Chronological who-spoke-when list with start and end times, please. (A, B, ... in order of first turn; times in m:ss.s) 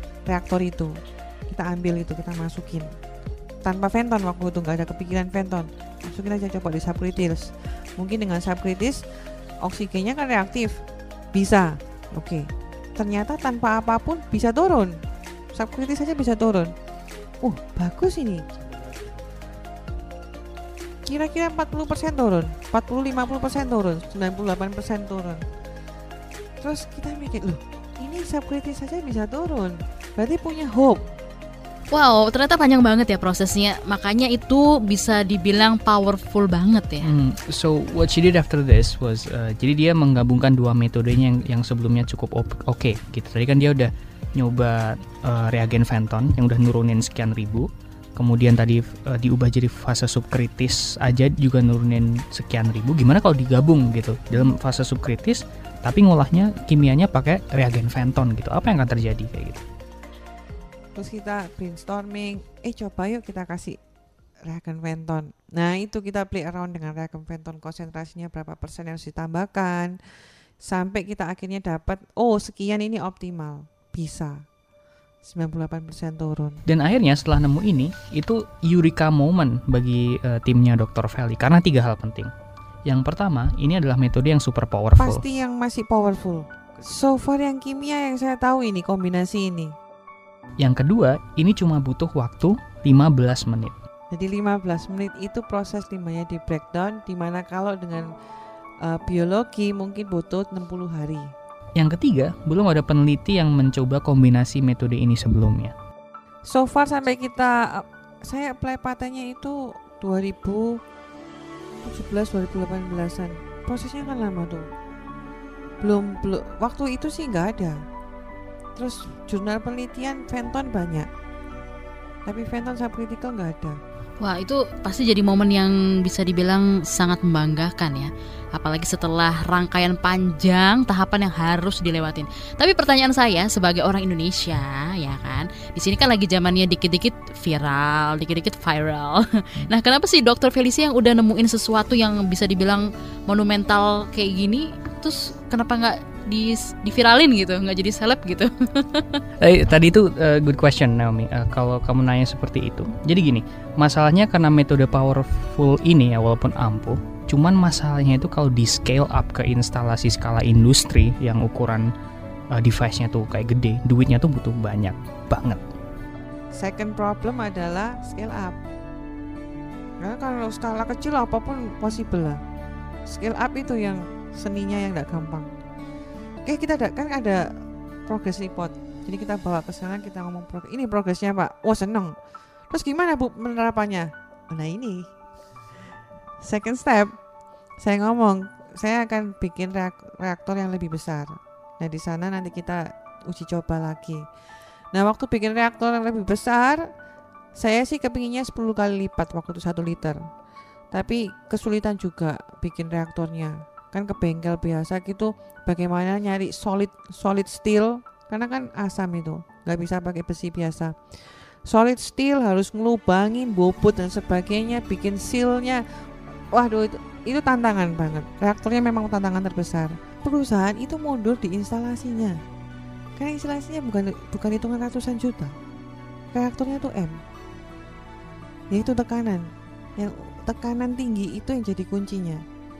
0:00.2-0:01.0 A
0:01.5-0:02.9 A
0:03.6-0:09.0 A
0:09.6-0:10.8 A
0:11.3-0:15.0 A
0:15.5-0:16.7 A
0:17.4-0:18.5 A
0:21.0-0:25.4 A
0:26.6-0:31.0 A
0:31.9-0:37.1 B
0:37.0-0:59.6 C
1:01.0-1:03.8 A
1:04.4-1:10.0 A
1:10.6-1:14.4 A
1:15.2-1:16.6 A
1:16.7-1:22.3 C
1:22.9-1:25.2 C
1:25.0-1:29.8 A
1:30.6-1:33.8 C
1:34.1-1:38.1 A
1:38.8-1:41.3 A
1:41.8-1:45.7 C
1:46.5-1:50.8 A
1:51.8-1:54.7 A
1:55.8-1:57.8 A
1:58.8-2:01.1 A
2:02.3-2:03.8 A
2:04.2-2:29.2 B
2:29.4-2:41.9 C
2:42.5-2:45.6 C
2:46.5-2:48.6 A
2:50.0-2:52.4 A
2:53.1-2:55.5 A
2:56.4-2:57.5 A
2:58.1-3:02.1 A
3:02.7-3:05.1 A
3:06.4-3:07.2 A
3:07.8-3:14.3 A
3:14.9-3:16.9 A
3:17.6-3:20.2 A
3:20.9-3:35.8 A
3:36.5-3:42.4 A
3:43.2-3:45.6 A
3:46.3-3:47.2 A
3:48.7-3:52.4 A